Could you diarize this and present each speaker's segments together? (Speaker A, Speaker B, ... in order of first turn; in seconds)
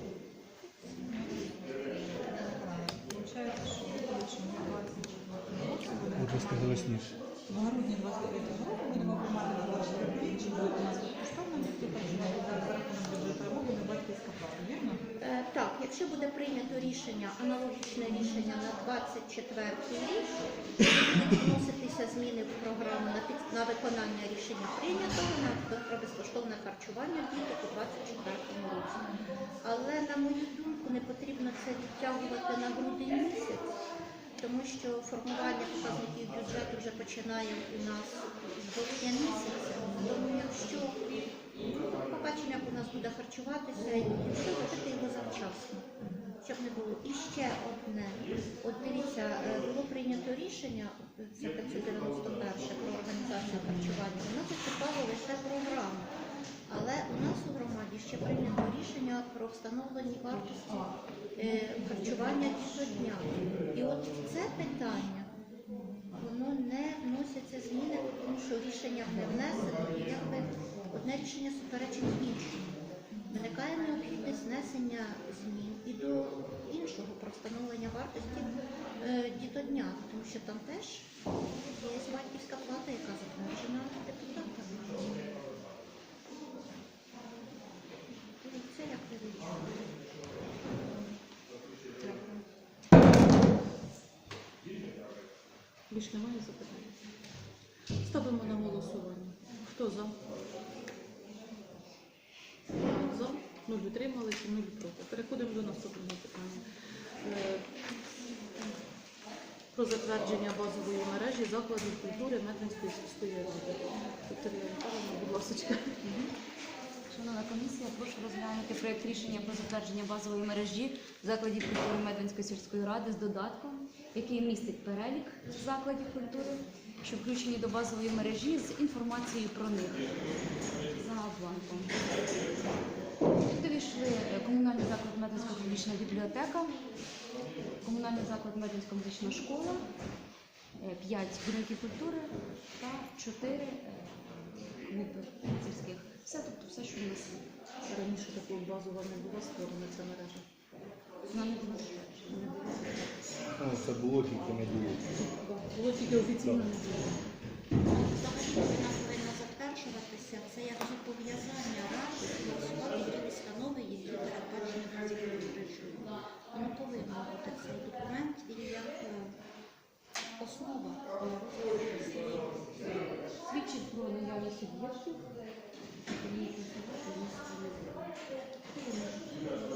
Speaker A: 0.9-15.0
Speaker B: 6.2-7.2, 153.6-155.1, 156.4-156.7
Speaker C: 15.2-33.7, 34.4-56.1, 56.7-65.3, 66.2-72.8, 73.3-81.1, 81.7-85.2, 88.3-89.9, 157.8-169.4, 170.4-172.8
Speaker D: 95.9-97.0, 98.0-100.2, 102.8-106.7, 107.2-107.7, 109.7-116.0, 147.9-150.4, 152.3-152.9, 155.1-157.2, 178.7-179.3
Speaker E: 116.0-116.3, 117.1-130.1, 130.9-132.1, 133.4-136.8, 137.8-139.8, 140.8-147.4, 151.3-152.4, 173.4-175.2, 176.0-178.1